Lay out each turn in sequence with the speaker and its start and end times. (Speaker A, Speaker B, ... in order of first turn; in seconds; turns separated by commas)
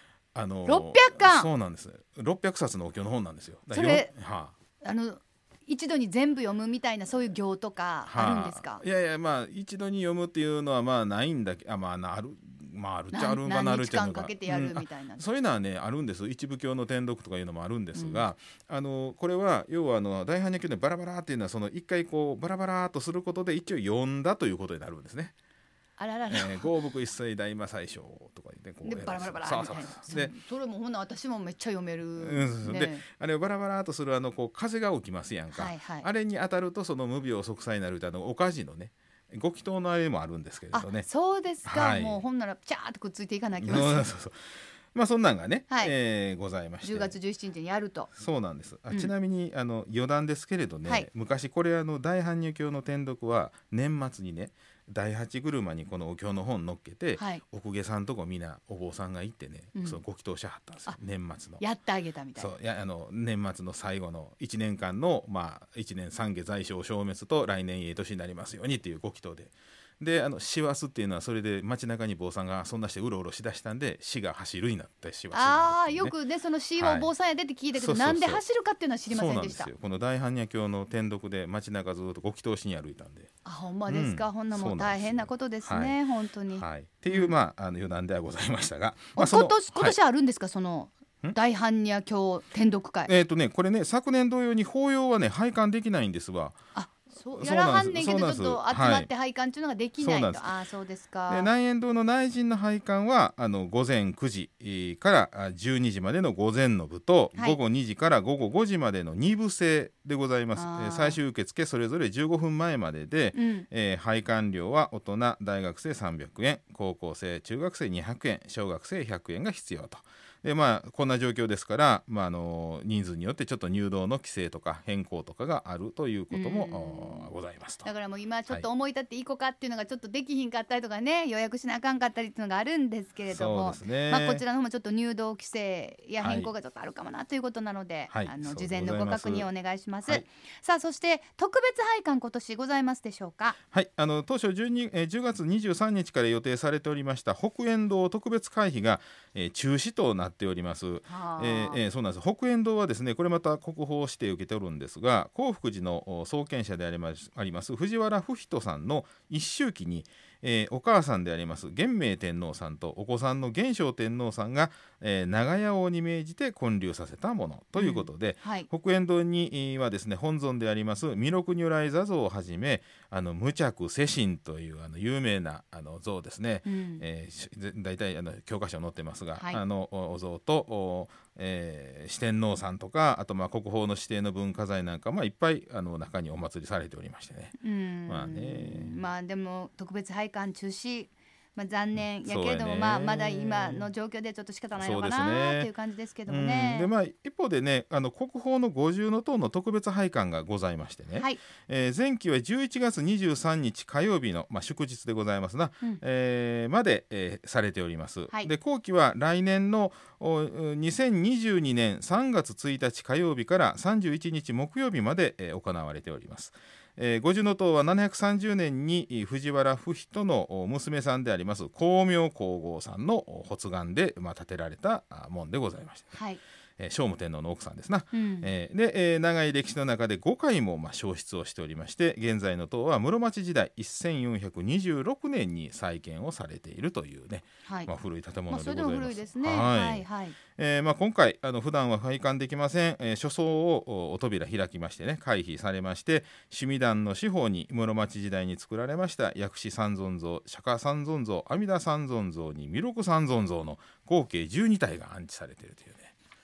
Speaker A: 0.3-4.5, Speaker B: 0.7-1.5, Speaker B: 3.7-4.1, Speaker B: 4.8-8.8, Speaker A: 8.1-25.3, Speaker B: 13.1-15.2, Speaker B: 17.9-18.2, Speaker B: 26.0-26.7, Speaker A: 26.3-30.4, Speaker B: 28.8-33.0, Speaker A: 32.2-41.1, Speaker B: 35.5-36.1, Speaker B: 40.7-44.1, Speaker A: 41.7-42.2, Speaker A: 43.6-47.2, Speaker B: 46.8-48.1, Speaker A: 48.1-61.6, Speaker B: 57.2-57.4, Speaker B: 59.8-60.0, Speaker B: 61.6-62.5, Speaker A: 62.4-76.1, Speaker B: 75.3-79.7, Speaker A: 76.8-77.1, Speaker A: 77.8-78.4, Speaker A: 79.1-83.3, Speaker B: 83.5-87.3, Speaker A: 83.9-86.0, Speaker A: 86.5-90.0, Speaker B: 89.2-93.1, Speaker A: 93.1-96.6, Speaker B: 96.8-101.5, Speaker A: 97.4-99.1, Speaker A: 100.0-100.5, Speaker A: 101.3-127.9, Speaker B: 110.5-111.2, Speaker B: 113.3-113.7, Speaker B: 126.3-127.3, Speaker B: 127.8-143.6, Speaker A: 133.3-134.4, Speaker A: 136.2-136.5, Speaker A: 138.1-139.5, Speaker A: 143.7-187.6, Speaker B: 151.1-151.8, Speaker B: 167.8-168.7, Speaker B: 176.7-177.0, Speaker B: 179.4-179.6, Speaker B: 187.6-196.9, Speaker A: 188.1-189.0, Speaker A: 191.9-193.9, Speaker A: 194.8-195.7, Speaker A: 196.3-226.2, Speaker B: 201.2-201.4, Speaker B: 226.1-226.4, Speaker A: 226.8-256.1, Speaker B: 228.1-228.5, Speaker B: 237.7-237.9, Speaker B: 238.5-240.4